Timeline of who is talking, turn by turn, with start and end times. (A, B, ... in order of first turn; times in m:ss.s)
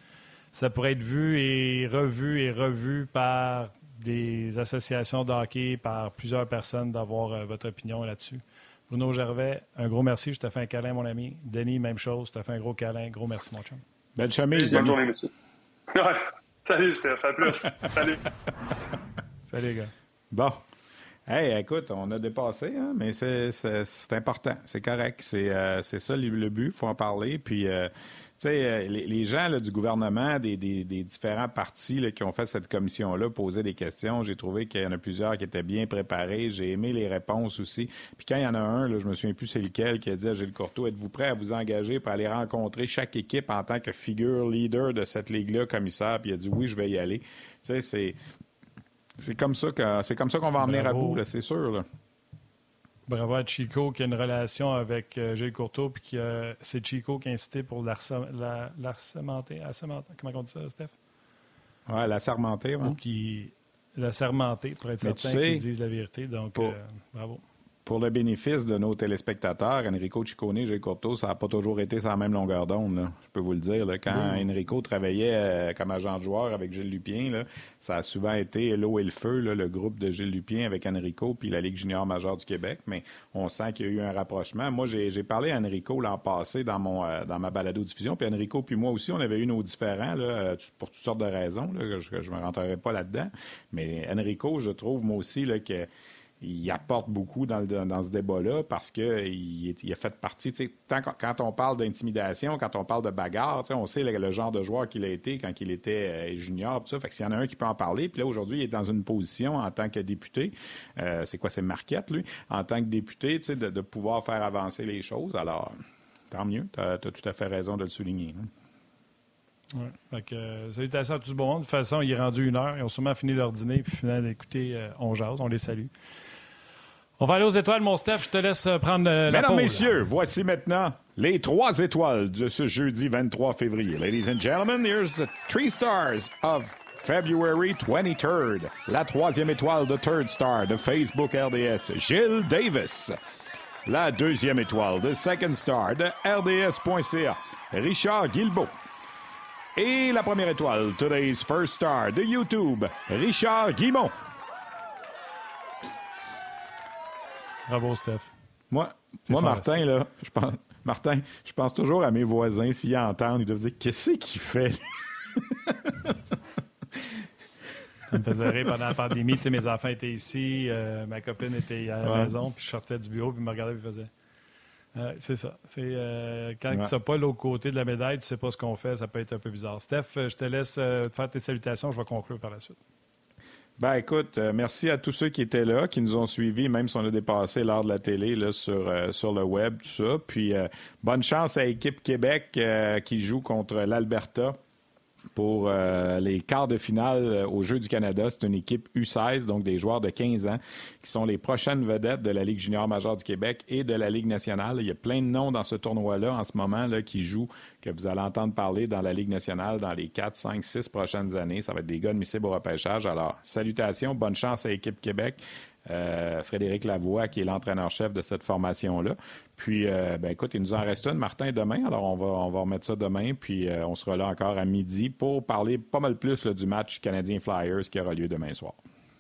0:00.5-0:13.8 A
0:14.2-0:15.0 B
0:14.5-0:15.3 C
0:15.9-0:18.3 C
0:19.4-0:19.9 A
0:20.3-0:20.6 B
0:21.3-0:48.2 B
0:49.2-0:51.8 B
0:50.6-0:51.2 A
0:53.1-1:00.9 A
1:01.9-1:03.0 B
1:02.8-1:07.4 A
1:05.0-1:05.6 B
1:07.8-1:35.9 B
1:14.1-1:14.5 A
1:36.4-1:55.8 B
1:56.3-1:58.5 B
1:59.7-2:05.9 A
2:07.2-2:10.0 A
2:09.3-2:23.2 B
2:23.8-2:28.7 B
2:29.8-2:34.1 B
2:37.7-2:38.3 A
2:38.7-2:44.8 B
2:39.3-2:39.8 A
2:45.3-2:46.2 B
2:48.1-2:54.1 A
2:52.0-2:52.3 B
2:54.9-3:02.8 A
3:03.8-3:14.6 B
3:15.3-3:48.8 B